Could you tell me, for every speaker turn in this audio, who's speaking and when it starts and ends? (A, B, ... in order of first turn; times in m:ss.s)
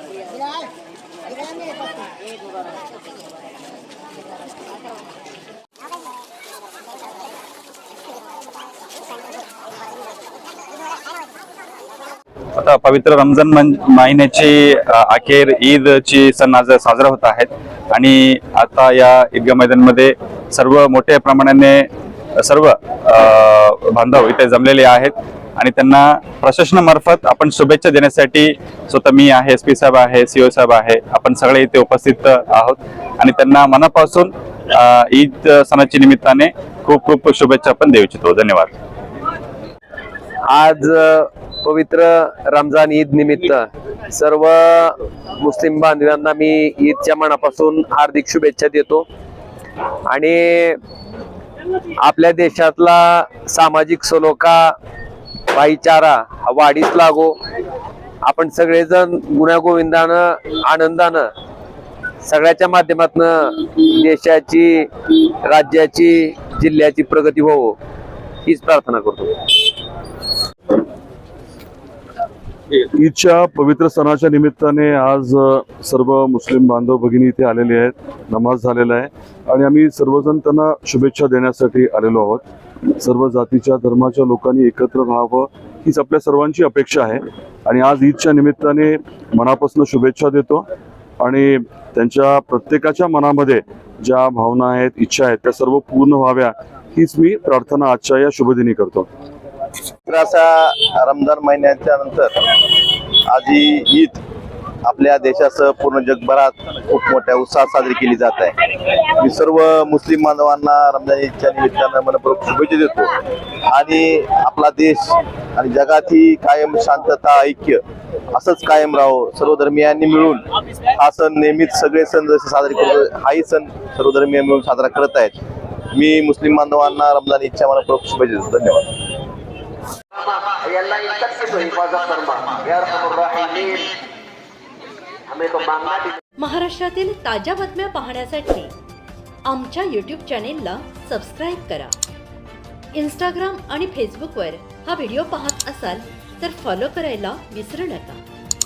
0:12.6-0:21.9 A
0:22.4-0:38.7 A
0:40.5-0:49.0 B
0:50.1-0:50.8 B
0:52.0-0:54.8 B
0:55.5-0:57.4 B
0:58.2-1:01.3 B
1:02.2-1:07.8 B
1:08.4-1:09.6 B
1:12.7-1:22.4 C
1:23.0-1:30.6 C
1:31.2-1:39.1 C
1:40.1-1:42.4 D
1:43.2-1:44.2 D
1:44.8-1:48.6 D
1:49.1-1:53.1 D
1:53.7-1:57.8 D
1:58.3-2:05.4 D
2:05.9-2:08.9 D
2:10.1-2:13.9 E
2:15.3-2:16.2 E
2:16.4-2:18.7 F
2:19.4-2:21.9 F
2:22.9-2:28.2 F